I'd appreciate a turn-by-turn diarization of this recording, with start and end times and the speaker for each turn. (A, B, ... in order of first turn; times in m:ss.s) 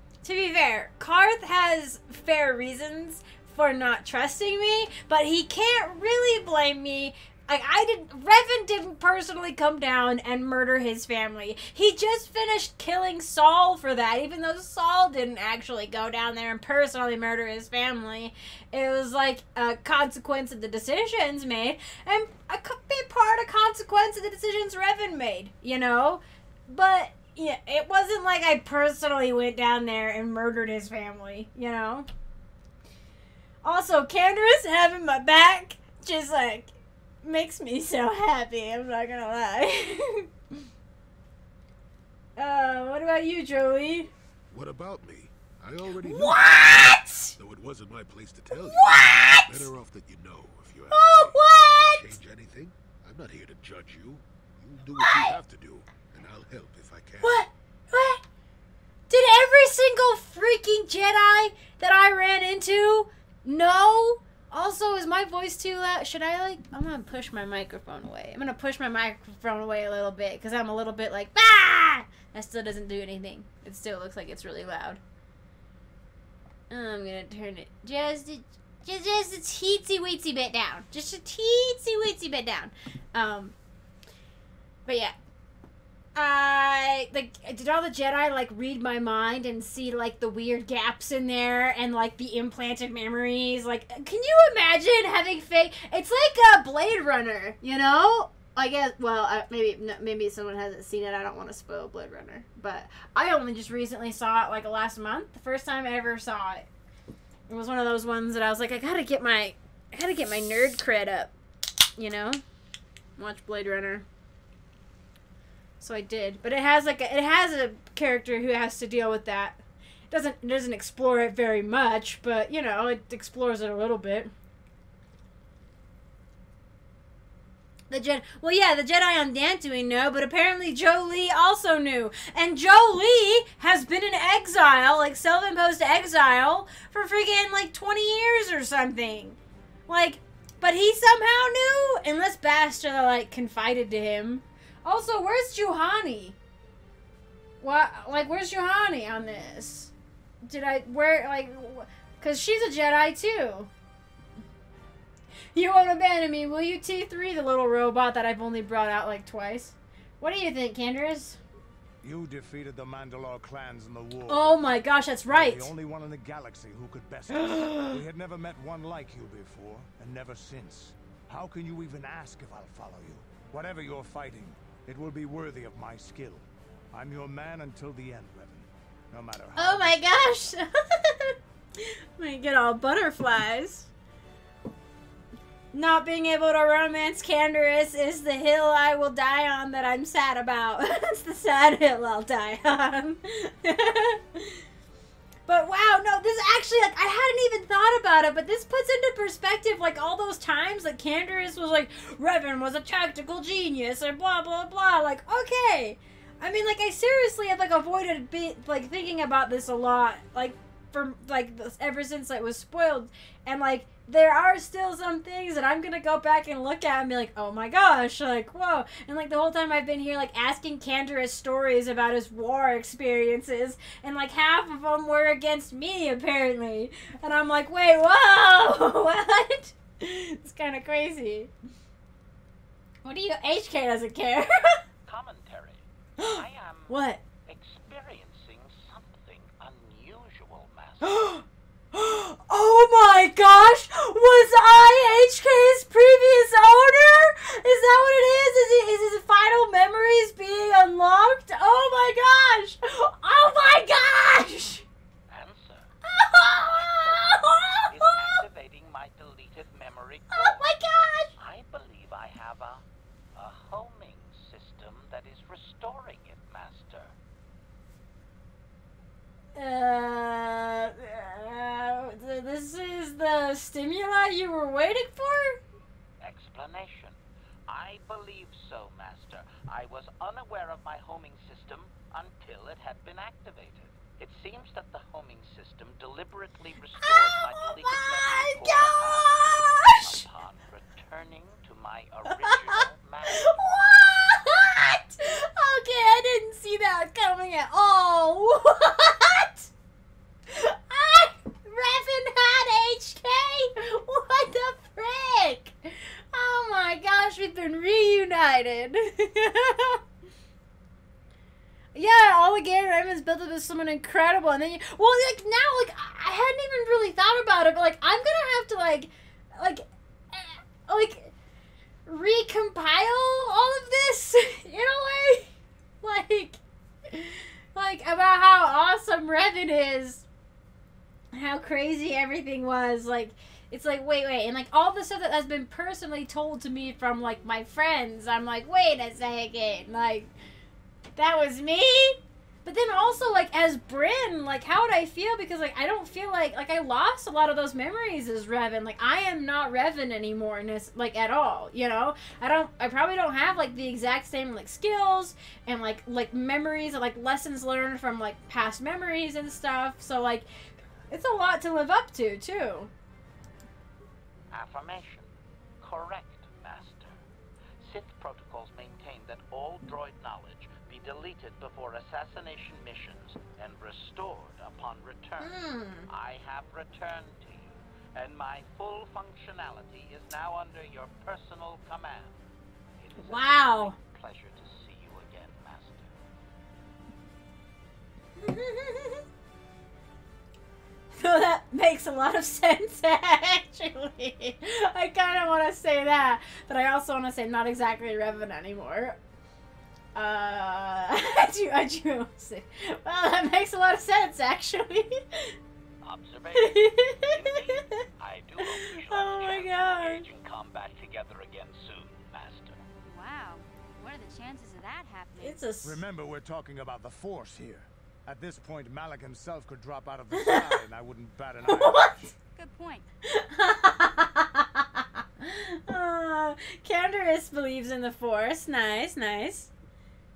0:00.2-0:32.1 A
0:33.6-0:36.7 A
0:37.2-0:40.3 A
0:42.4-0:44.1 A
0:44.5-0:57.4 B
0:46.0-0:47.4 A
0:48.5-0:49.7 A
0:50.9-0:52.2 A
0:55.0-0:55.4 A
0:57.2-0:58.2 A
0:59.1-1:15.0 A
1:16.7-1:23.5 A
1:24.9-1:25.2 A
1:26.2-1:46.7 A
1:47.5-1:51.3 A
1:52.0-1:52.4 A
1:53.2-1:54.1 A
1:55.8-2:04.3 A
2:07.9-2:26.4 A
2:27.6-2:29.9 A
2:30.4-2:33.7 A
2:35.6-2:41.4 A
2:42.0-2:44.6 C
2:44.3-2:45.7 A
2:45.3-3:00.0 C
2:47.3-2:48.0 A
2:59.6-3:03.9 A
3:05.7-3:14.6 A
3:15.5-3:51.5 A
3:53.0-3:54.8 A
3:55.0-4:01.4 D
3:56.2-3:57.2 A
4:01.0-4:14.9 A
4:15.3-4:15.9 D
4:16.0-4:18.4 A
4:16.5-4:20.6 D
4:20.3-4:21.3 A
4:21.4-4:22.8 D
4:23.4-4:27.1 D
4:29.6-4:35.6 A
4:36.2-4:49.4 D
4:47.0-4:50.2 A
4:50.0-4:53.6 D
4:52.3-4:59.7 A
5:00.5-5:05.8 A
5:06.3-5:10.0 A
5:12.0-5:21.3 A
5:22.1-5:26.6 A
5:27.1-5:30.3 A
5:31.3-5:40.3 A
5:41.2-6:00.5 A
6:01.1-6:02.9 A
6:04.5-6:05.3 D
6:05.8-6:07.2 D
6:07.8-6:15.6 D
6:15.4-6:16.1 A
6:16.1-6:22.4 D
6:23.0-6:26.1 D
6:23.2-6:24.0 A
6:28.4-6:29.2 A
6:31.1-6:39.2 A
6:40.2-6:45.5 A
6:46.0-6:52.8 D
6:46.6-6:48.0 A
6:48.6-6:50.3 A
6:53.0-6:55.6 E
6:55.4-6:56.0 A
6:55.8-7:02.3 C
7:00.3-7:00.8 A
7:01.6-7:02.3 A
7:02.5-7:03.1 E
7:03.3-7:09.7 A